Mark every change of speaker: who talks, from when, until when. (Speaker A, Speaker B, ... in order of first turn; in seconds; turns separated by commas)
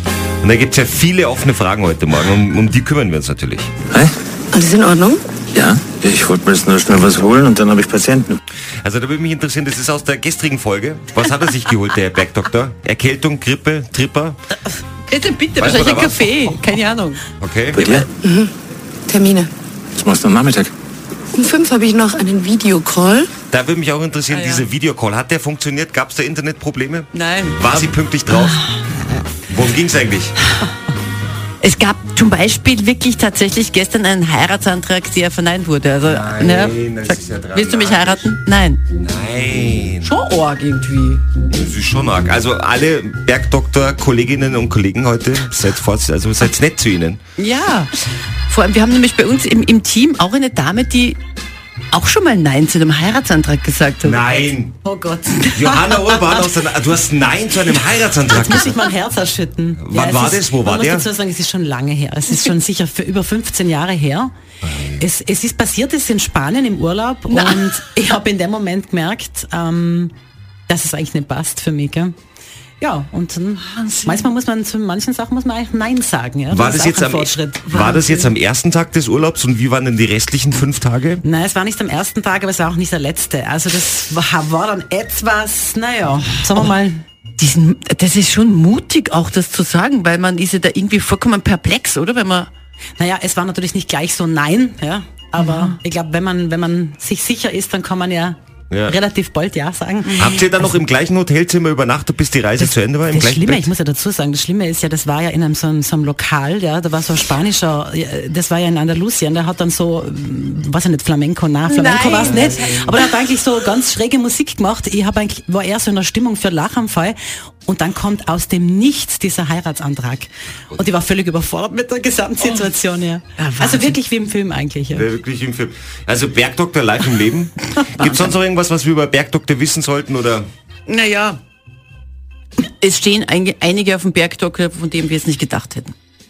Speaker A: 0.4-3.7, Speaker B: 4.5-5.2, Speaker C: 5.5-8.4, Speaker A: 8.8-14.4, Speaker D: 15.1-17.2, Speaker A: 15.6-16.6, Speaker A: 17.4-17.9, Speaker C: 17.7-18.1, Speaker B: 18.1-18.5, Speaker B: 19.1-19.5, Speaker C: 19.9-20.7, Speaker B: 21.3-23.3, Speaker A: 23.5-28.6, Speaker D: 24.3-24.7, Speaker D: 27.1-27.8, Speaker A: 29.5-30.4, Speaker D: 31.6-38.8, Speaker A: 36.0-38.3, Speaker A: 38.9-40.1, Speaker D: 40.0-41.2, Speaker A: 41.5-47.2, Speaker D: 47.4-48.0, Speaker D: 48.5-51.2, Speaker D: 51.9-54.2, Speaker A: 54.0-54.8, Speaker E: 54.8-55.7, Speaker A: 55.5-58.8, Speaker E: 58.2-64.3, Speaker A: 59.8-61.1, Speaker A: 64.7-65.0, Speaker E: 65.0-70.1, Speaker D: 67.3-67.6, Speaker E: 70.7-72.2, Speaker E: 72.8-78.3, Speaker D: 73.7-74.2, Speaker A: 76.5-81.2, Speaker E: 81.2-87.0, Speaker D: 87.4-92.5, Speaker E: 93.0-100.5, Speaker D: 95.4-95.8, Speaker A: 98.7-99.0, Speaker A: 100.1-103.7, Speaker E: 102.6-125.1, Speaker D: 111.7-113.1, Speaker D: 123.4-124.0, Speaker A: 124.9-130.5, Speaker D: 130.9-131.4, Speaker D: 132.8-135.9